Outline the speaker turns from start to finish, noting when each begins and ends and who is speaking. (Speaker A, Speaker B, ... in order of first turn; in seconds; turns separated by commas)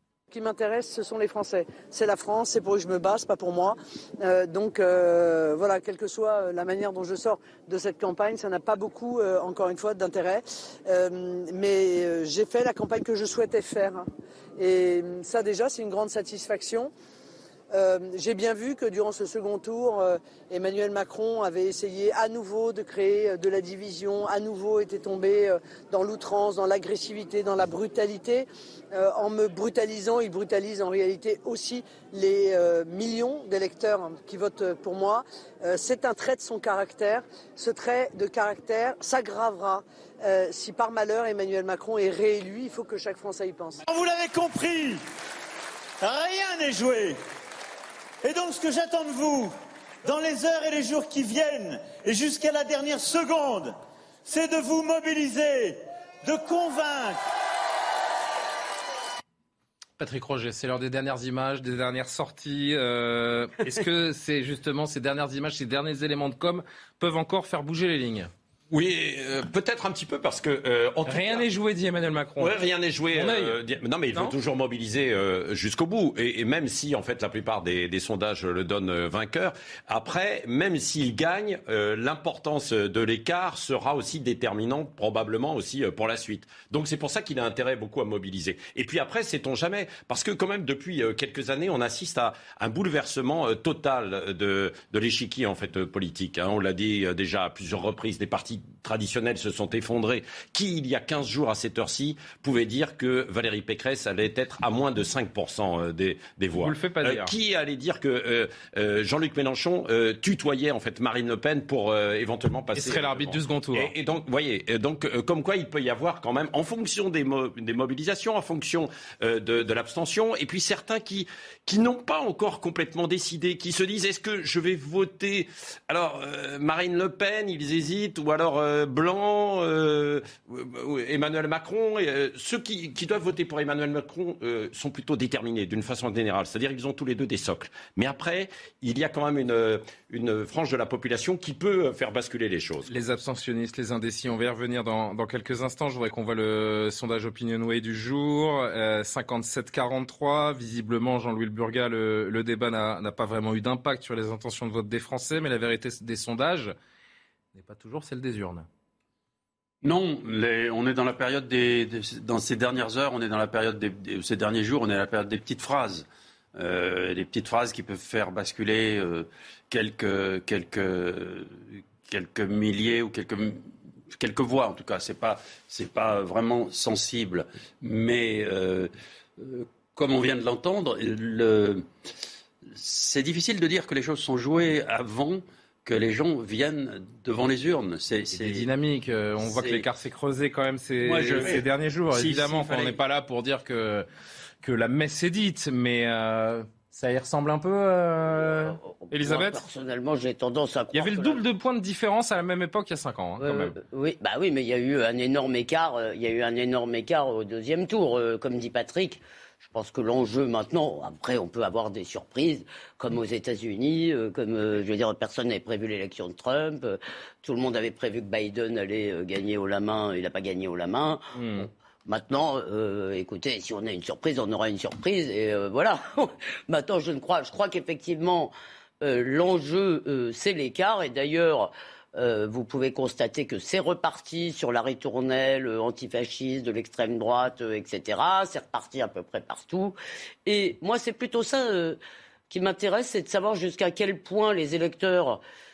Speaker A: 0.3-14.0, Speaker A: 14.6-16.9, Speaker A: 17.7-43.8, Speaker B: 43.9-45.0, Speaker B: 46.0-47.2, Speaker B: 48.2-49.5, Speaker B: 50.0-57.2, Speaker C: 60.0-68.3, Speaker D: 68.7-71.5, Speaker C: 71.0-72.5, Speaker D: 72.4-142.9, Speaker C: 73.1-73.6, Speaker C: 106.6-107.3, Speaker C: 112.7-113.9, Speaker C: 142.8-156.7, Speaker C: 157.5-158.7, Speaker E: 159.8-181.9, Speaker E: 182.6-188.7, Speaker C: 188.3-194.1, Speaker E: 189.4-189.8, Speaker E: 191.0-193.0, Speaker C: 194.6-199.6, Speaker F: 198.3-201.4, Speaker C: 200.9-203.8, Speaker F: 203.4-242.0, Speaker C: 221.3-221.7, Speaker F: 242.5-245.4